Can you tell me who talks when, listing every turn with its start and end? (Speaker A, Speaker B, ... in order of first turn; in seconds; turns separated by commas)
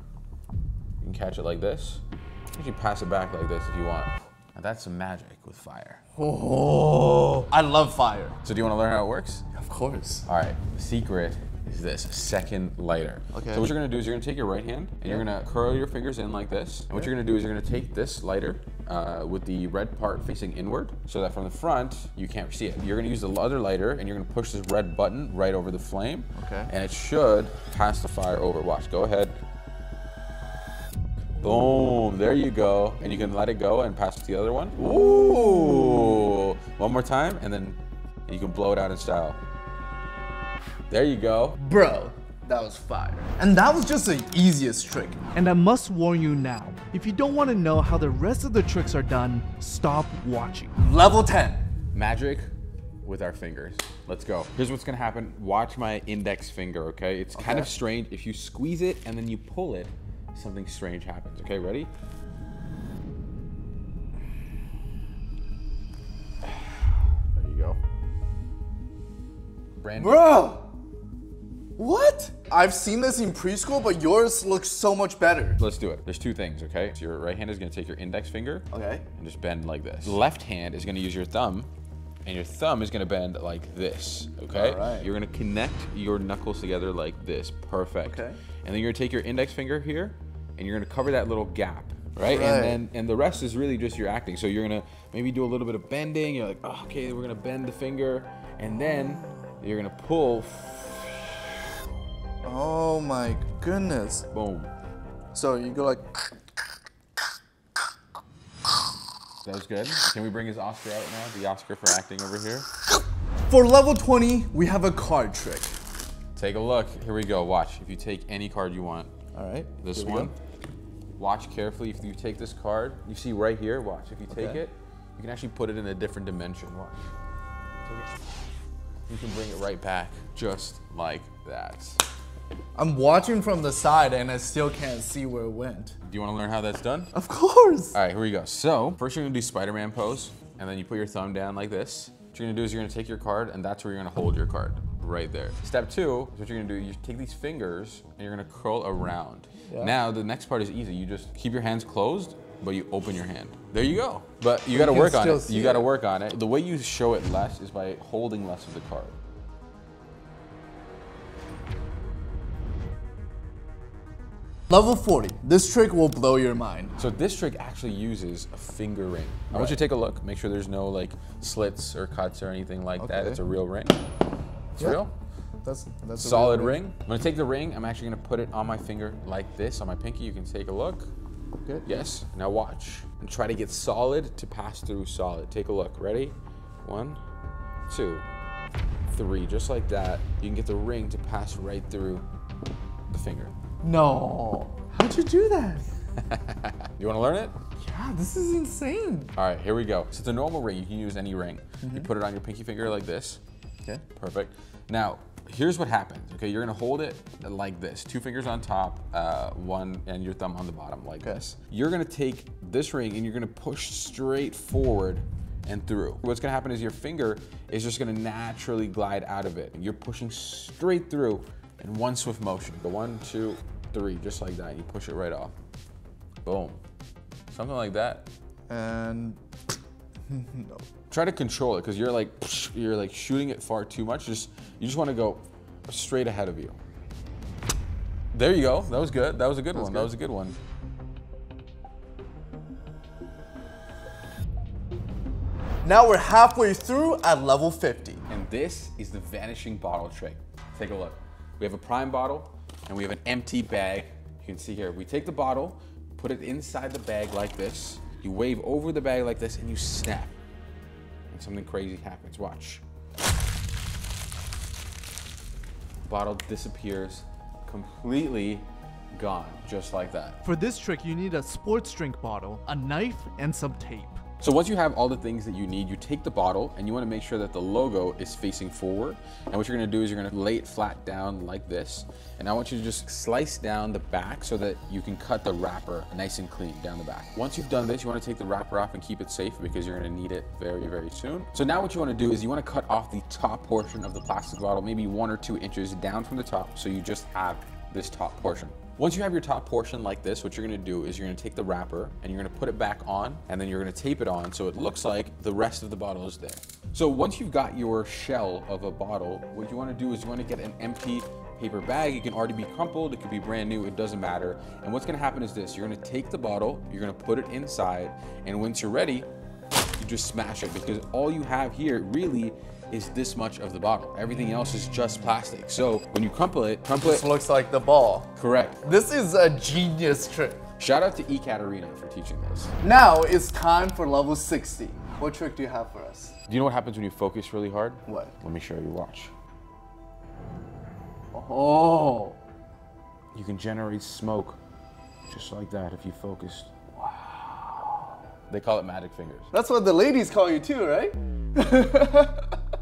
Speaker A: 1.0-2.0, Speaker A: 2.5-6.0, Speaker B: 6.2-8.4, Speaker A: 8.4-9.4, Speaker B: 9.5-10.3, Speaker A: 10.3-29.4, Speaker B: 13.3-13.7, Speaker B: 26.4-26.7, Speaker A: 31.4-39.4, Speaker A: 40.9-41.6, Speaker B: 41.6-46.8, Speaker C: 45.4-50.7, Speaker B: 50.7-51.6, Speaker A: 51.9-52.5, Speaker A: 53.0-61.9, Speaker B: 57.3-57.7, Speaker A: 66.4-67.8, Speaker A: 69.8-70.5, Speaker B: 70.0-70.7, Speaker B: 71.8-75.6, Speaker A: 75.6-81.7, Speaker B: 78.7-79.0, Speaker A: 82.2-101.5, Speaker B: 84.5-85.1, Speaker B: 88.0-88.4, Speaker B: 92.2-92.8, Speaker B: 102.4-104.3, Speaker A: 104.3-104.7, Speaker B: 105.3-106.1, Speaker A: 109.4-112.7, Speaker B: 113.5-115.8, Speaker A: 116.3-119.1, Speaker B: 119.3-120.3, Speaker A: 119.8-120.3, Speaker A: 121.2-127.1, Speaker B: 124.3-124.6, Speaker A: 129.1-132.0, Speaker B: 132.7-135.9, Speaker A: 136.0-137.1, Speaker B: 137.1-138.0, Speaker A: 137.9-159.2, Speaker B: 149.7-149.9, Speaker B: 154.7-155.9, Speaker B: 164.7-166.9, Speaker A: 167.0-174.0, Speaker B: 169.5-169.8, Speaker B: 173.0-173.4, Speaker A: 174.8-175.1, Speaker B: 175.6-176.8, Speaker A: 176.2-181.1, Speaker B: 181.6-182.1, Speaker A: 181.8-187.2, Speaker A: 187.9-188.2, Speaker A: 189.1-192.2, Speaker A: 193.1-193.5, Speaker B: 193.8-195.9, Speaker A: 196.2-197.6, Speaker B: 197.8-199.3, Speaker A: 199.3-203.4, Speaker B: 201.8-202.1, Speaker A: 204.1-225.5, Speaker B: 211.2-211.4, Speaker A: 226.4-226.8, Speaker A: 227.5-228.2, Speaker B: 228.7-229.4, Speaker B: 230.3-230.8, Speaker A: 231.1-236.8, Speaker A: 238.3-240.6, Speaker B: 239.7-240.1, Speaker B: 245.8-248.2, Speaker A: 248.3-260.3, Speaker A: 261.3-262.8, Speaker A: 266.1-270.4, Speaker C: 270.4-273.8, Speaker B: 270.6-274.2, Speaker A: 274.4-319.3, Speaker A: 320.0-327.3, Speaker B: 326.9-328.3, Speaker A: 328.4-328.8, Speaker B: 328.8-330.6, Speaker A: 330.8-332.7, Speaker B: 332.8-336.4, Speaker A: 336.5-339.3, Speaker B: 338.1-338.3, Speaker B: 341.3-342.4, Speaker A: 343.3-344.6, Speaker A: 345.3-346.7, Speaker A: 348.5-349.5, Speaker B: 349.5-352.5